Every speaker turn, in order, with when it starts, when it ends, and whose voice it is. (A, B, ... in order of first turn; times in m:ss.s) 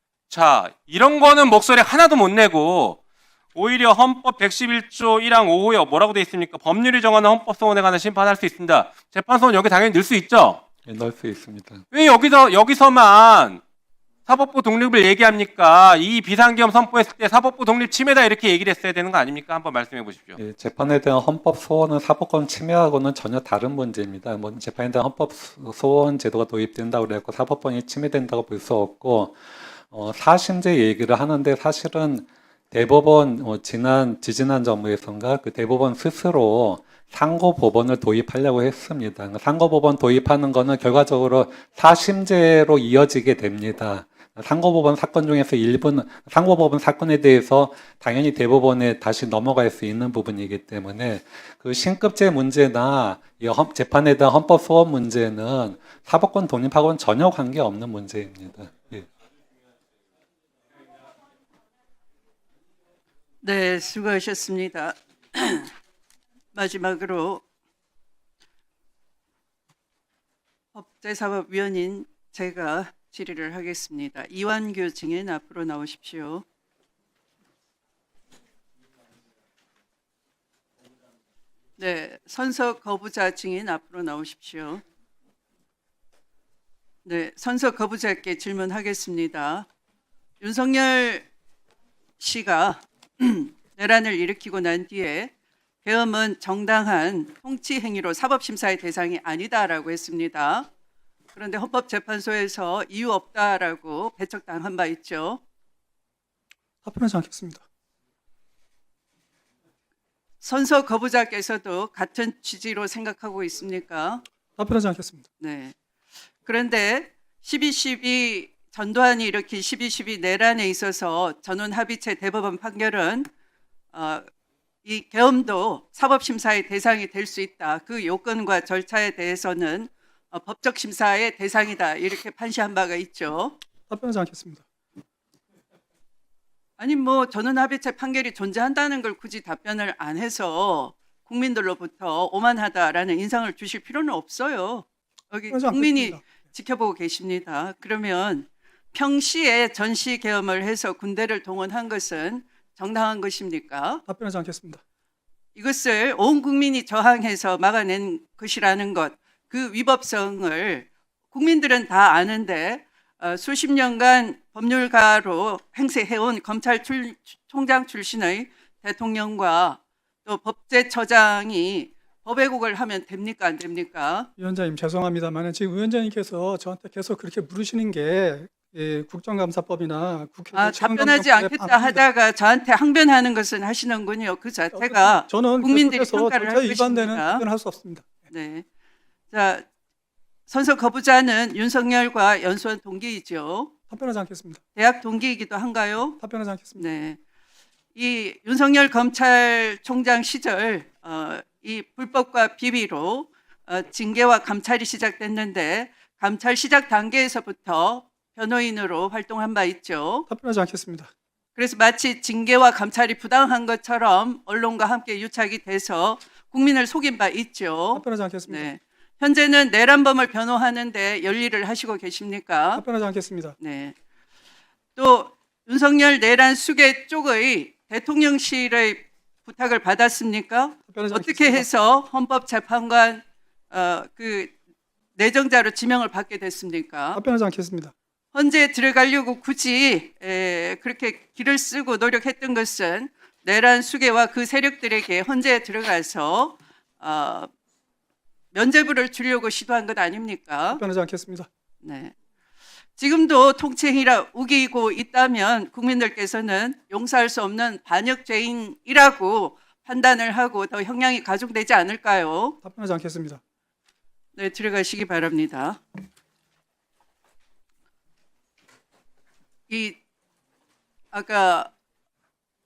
0:00.3-0:03.0 A
0:03.6-0:10.6 A
0:10.8-0:11.8 B
0:11.9-0:13.6 A
0:14.3-0:20.4 A
0:20.4-0:59.0 B
1:03.4-1:05.7 C
1:06.5-1:07.4 C
1:10.7-1:16.4 C
1:21.8-1:24.8 C
1:27.0-1:29.7 C
1:30.4-1:31.3 C
1:32.2-1:35.3 C
1:35.8-1:40.7 C
1:41.4-1:45.4 C
1:46.8-1:47.6 D
1:50.4-1:54.2 C
1:54.6-1:55.3 D
1:55.4-1:55.7 C
1:56.4-2:03.3 C
2:03.9-2:04.3 C
2:04.8-2:13.6 C
2:13.9-2:14.6 D
2:16.8-2:34.0 C
2:25.5-2:26.5 D
2:34.1-2:34.8 D
2:35.6-2:54.3 C
2:54.4-3:02.0 D
3:00.5-3:07.4 C
3:04.7-3:08.2 D
3:08.3-3:08.6 C
3:09.3-3:09.6 C
3:10.5-3:13.7 C
3:13.9-3:14.6 D
3:14.8-3:16.2 C
3:16.2-3:16.9 D
3:16.8-3:17.2 C
3:18.0-3:30.3 C
3:30.3-3:31.1 D
3:31.6-3:42.8 C
3:37.9-3:38.7 D
3:42.8-3:43.6 D
3:43.6-3:44.0 C
3:45.0-3:54.5 C
3:50.9-3:51.7 D
3:55.2-3:57.2 C
3:57.1-3:57.9 D
3:58.3-4:07.5 C
4:08.5-4:10.8 C
4:10.7-4:11.5 D
4:11.8-4:12.1 C
4:13.0-4:22.6 C
4:22.6-4:23.4 D
4:24.4-4:25.8 C
4:29.7-4:30.0 C
4:31.1-4:31.7 C